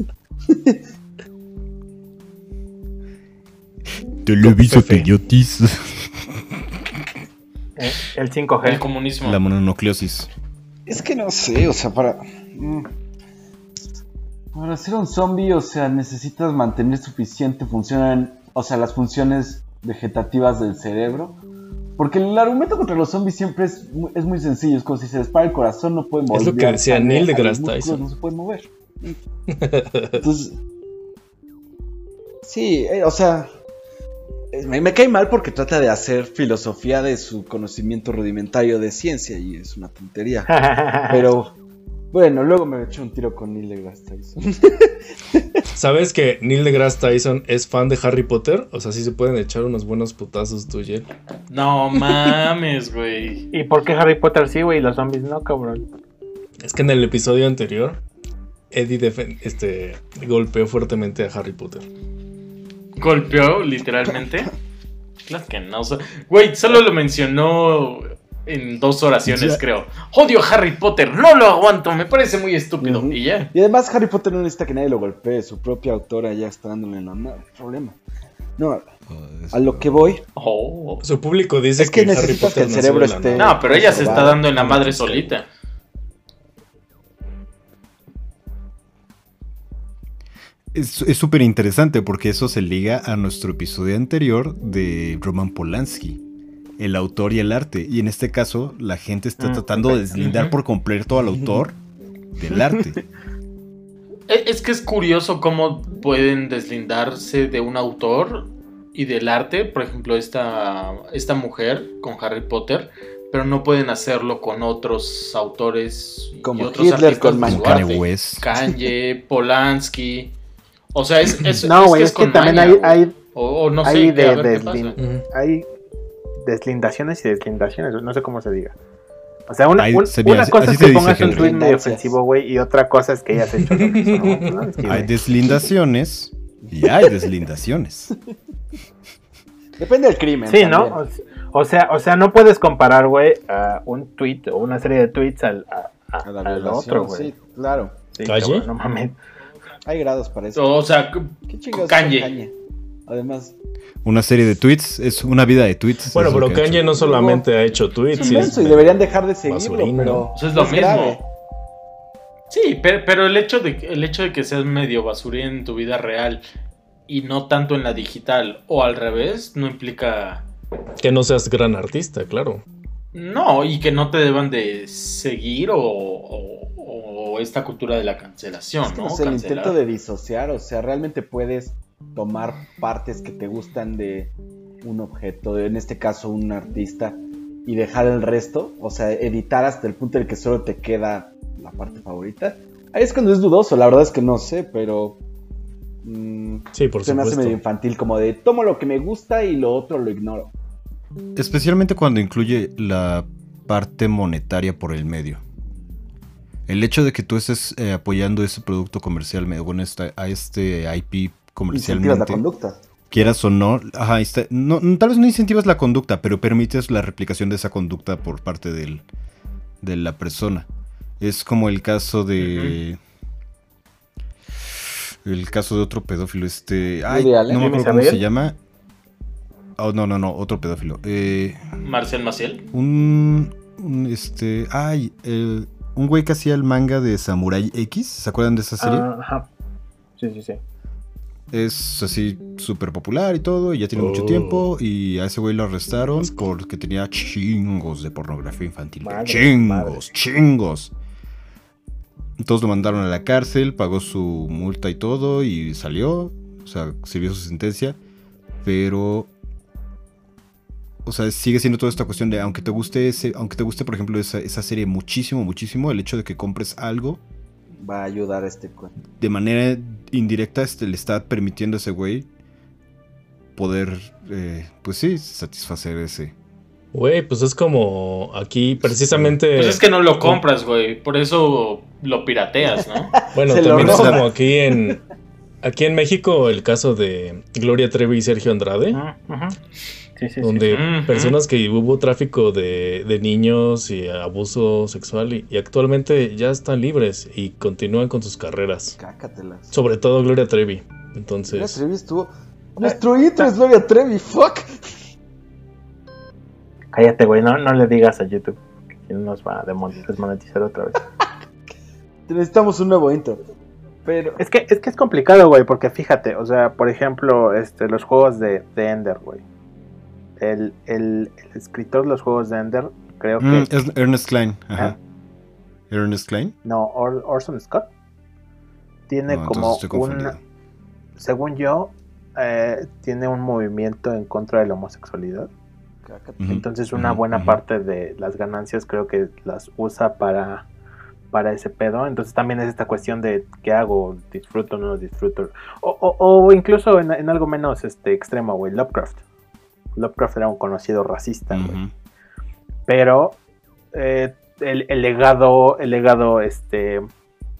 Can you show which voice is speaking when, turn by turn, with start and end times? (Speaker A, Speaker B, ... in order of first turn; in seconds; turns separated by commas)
Speaker A: 0.5-0.8, Speaker B: 4.2-6.4, Speaker C: 4.4-5.1, Speaker D: 7.8-8.8, Speaker E: 8.6-9.4, Speaker B: 9.2-10.3, Speaker A: 10.9-12.9, Speaker A: 14.5-21.4, Speaker A: 22.0-29.2, Speaker C: 26.3-28.0, Speaker C: 29.5-30.2, Speaker A: 30.1-30.6, Speaker A: 32.4-33.5, Speaker A: 34.5-40.5, Speaker D: 40.5-41.3, Speaker A: 41.1-41.5, Speaker A: 42.1-45.6, Speaker C: 45.7-51.1, Speaker E: 51.5-53.5, Speaker D: 53.5-55.9, Speaker C: 56.6-58.0, Speaker C: 58.7-61.9, Speaker E: 63.0-64.5, Speaker E: 65.2-73.5, Speaker B: 69.2-69.6, Speaker A: 72.8-78.0, Speaker A: 78.6-78.9, Speaker B: 79.1-80.2, Speaker A: 79.5-80.2, Speaker E: 80.3-81.0, Speaker C: 81.0-85.2, Speaker A: 81.8-84.5, Speaker E: 83.3-85.5, Speaker B: 90.7-96.2, Speaker B: 96.8-101.8, Speaker D: 99.4-100.0, Speaker E: 100.2-100.5, Speaker B: 102.3-103.0, Speaker A: 102.5-103.0, Speaker E: 104.3-120.3, Speaker A: 116.4-117.9, Speaker B: 117.4-118.4, Speaker E: 120.9-125.0, Speaker D: 121.6-123.2, Speaker D: 123.8-125.7, Speaker C: 125.0-125.2, Speaker D: 126.4-128.7, Speaker D: 129.5-135.2, Speaker B: 129.7-131.5, Speaker A: 130.9-132.2, Speaker C: 133.7-134.5, Speaker B: 134.8-138.1, Speaker A: 136.8-137.1, Speaker A: 139.8-141.0, Speaker D: 140.5-147.3, Speaker A: 146.2-148.1, Speaker D: 148.1-149.2, Speaker C: 148.2-148.7, Speaker A: 149.8-150.7, Speaker E: 150.5-152.4, Speaker A: 151.5-152.5, Speaker A: 153.1-153.5, Speaker B: 154.0-156.9, Speaker C: 156.1-160.3, Speaker A: 156.9-157.5, Speaker E: 158.1-158.5, Speaker A: 158.2-161.2, Speaker E: 160.3-161.2, Speaker E: 162.5-166.4, Speaker E: 167.1-170.4, Speaker C: 171.0-172.6, Speaker E: 173.1-179.8, Speaker A: 178.8-195.2, Speaker A: 196.0-200.5, Speaker C: 196.7-197.6, Speaker B: 201.3-205.4, Speaker B: 206.7-212.4, Speaker A: 211.7-212.8, Speaker B: 213.1-219.0, Speaker B: 219.8-220.7, Speaker B: 221.2-223.0, Speaker E: 222.4-222.8, Speaker B: 225.2-228.6, Speaker A: 227.1-227.7, Speaker D: 227.5-228.2, Speaker B: 229.8-231.6, Speaker E: 231.8-232.6, Speaker B: 232.7-239.1, Speaker D: 238.8-239.5, Speaker D: 240.2-240.6, Speaker B: 241.5-250.9, Speaker C: 243.9-244.7, Speaker D: 249.0-250.0, Speaker B: 252.4-258.0, Speaker B: 258.6-259.3, Speaker B: 261.0-267.2, Speaker A: 267.8-268.9, Speaker B: 269.1-272.3, Speaker B: 273.6-276.3, Speaker C: 276.9-280.4, Speaker B: 278.8-279.4, Speaker E: 279.5-283.1, Speaker A: 282.7-285.0, Speaker C: 283.3-285.0, Speaker B: 283.7-284.3, Speaker C: 285.6-289.0, Speaker D: 288.9-289.6, Speaker D: 290.2-290.8, Speaker C: 290.4-298.9, Speaker E: 290.7-291.4, Speaker A: 298.9-299.7, Speaker C: 299.7-301.8, Speaker A: 301.5-304.7, Speaker D: 306.9-311.0, Speaker A: 312.3-313.4, Speaker A: 314.0-314.4, Speaker D: 314.4-319.4, Speaker D: 320.4-323.7, Speaker B: 323.4-325.0, Speaker B: 325.9-326.5, Speaker D: 326.6-327.9, Speaker D: 329.1-330.3, Speaker B: 329.3-330.4, Speaker D: 331.2-335.5, Speaker A: 336.1-336.5, Speaker B: 336.4-337.6, Speaker D: 336.4-340.7, Speaker D: 341.3-349.2, Speaker D: 349.9-351.8, Speaker B: 351.5-351.9, Speaker D: 352.9-353.4, Speaker D: 353.9-357.1